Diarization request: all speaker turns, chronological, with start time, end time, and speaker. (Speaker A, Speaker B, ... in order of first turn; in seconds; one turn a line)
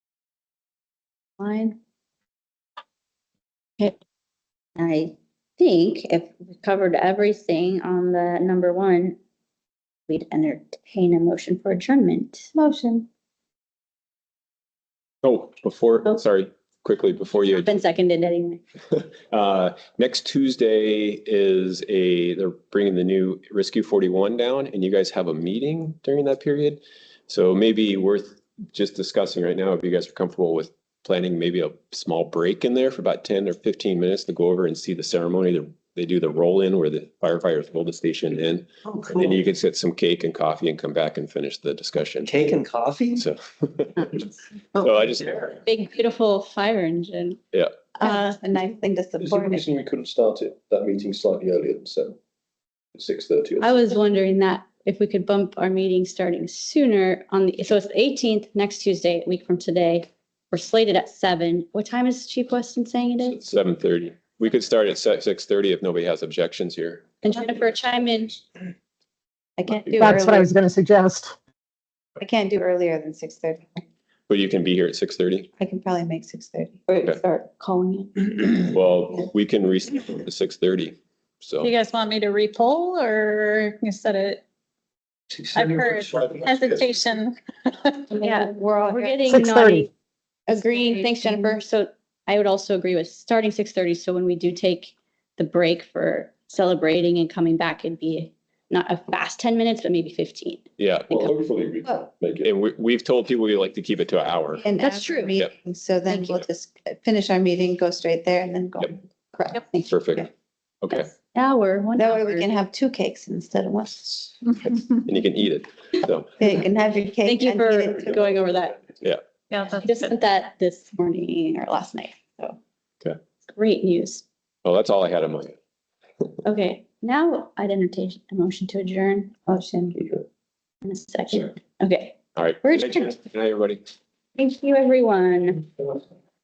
Speaker A: 1.4-1.8
Speaker A: 4.8-9.2
Speaker A: 10.1-12.5
Speaker B: 12.6-13.1
Speaker C: 15.2-17.7
Speaker A: 17.5-18.6
Speaker C: 18.9-42.4
Speaker D: 42.3-43.2
Speaker C: 43.1-44.2
Speaker C: 44.8-45.6
Speaker A: 45.6-47.4
Speaker B: 48.0-49.7
Speaker A: 48.0-48.4
Speaker E: 49.2-52.2
Speaker E: 53.0-53.7
Speaker A: 53.6-63.4
Speaker C: 63.4-67.2
Speaker A: 67.2-68.4
Speaker B: 69.6-70.5
Speaker F: 69.9-71.3
Speaker B: 72.2-73.8
Speaker C: 74.3-75.5
Speaker B: 75.6-78.3
Speaker A: 77.7-78.1
Speaker C: 78.6-81.7
Speaker G: 81.6-84.4
Speaker D: 85.3-86.3
Speaker G: 85.5-88.1
Speaker B: 88.1-89.4
Speaker A: 88.1-89.9
Speaker F: 89.3-89.9
Speaker B: 90.5-91.5
Speaker A: 90.5-100.7
Speaker C: 100.8-101.3
Speaker E: 101.1-102.5
Speaker C: 102.4-104.7
Speaker B: 104.6-110.3
Speaker A: 104.8-105.4
Speaker A: 106.1-106.4
Speaker C: 109.8-110.3
Speaker C: 110.8-111.1
Speaker A: 110.9-112.5
Speaker B: 112.0-114.4
Speaker C: 114.7-116.4
Speaker B: 116.4-118.2
Speaker A: 117.2-118.8
Speaker G: 119.5-120.1
Speaker A: 119.8-122.6
Speaker A: 123.5-124.2
Speaker C: 124.7-125.6
Speaker A: 126.4-129.4
Speaker B: 129.5-130.1
Speaker A: 130.8-133.2
Speaker C: 132.4-133.8
Speaker A: 134.4-135.7